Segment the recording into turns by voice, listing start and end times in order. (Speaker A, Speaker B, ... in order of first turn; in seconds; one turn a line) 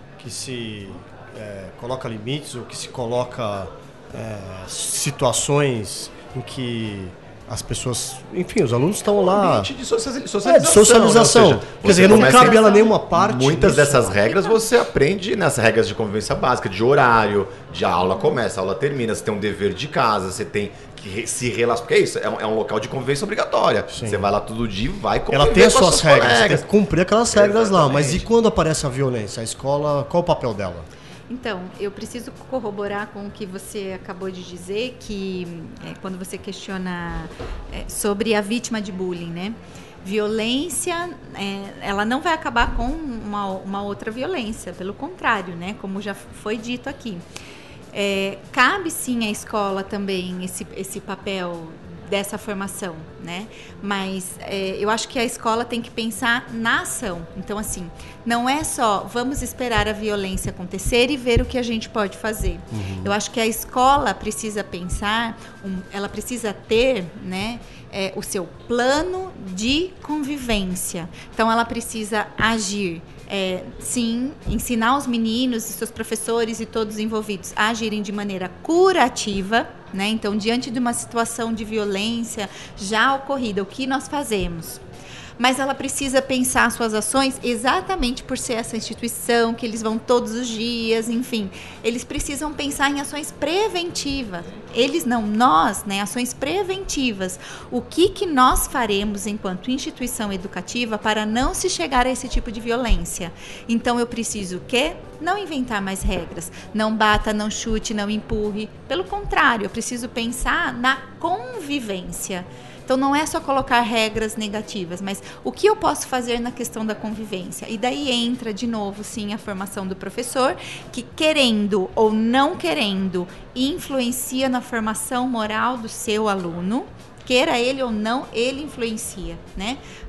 Speaker A: 0.2-9.7
Speaker B: 9.2-26.6
Speaker A: 10.4-14.2
Speaker C: 12.0-12.9
Speaker A: 23.9-24.3
Speaker A: 25.3-30.9
Speaker B: 27.3-28.3
Speaker C: 31.3-47.2
Speaker C: 47.9-84.8
Speaker A: 62.7-63.1
Speaker C: 85.4-129.8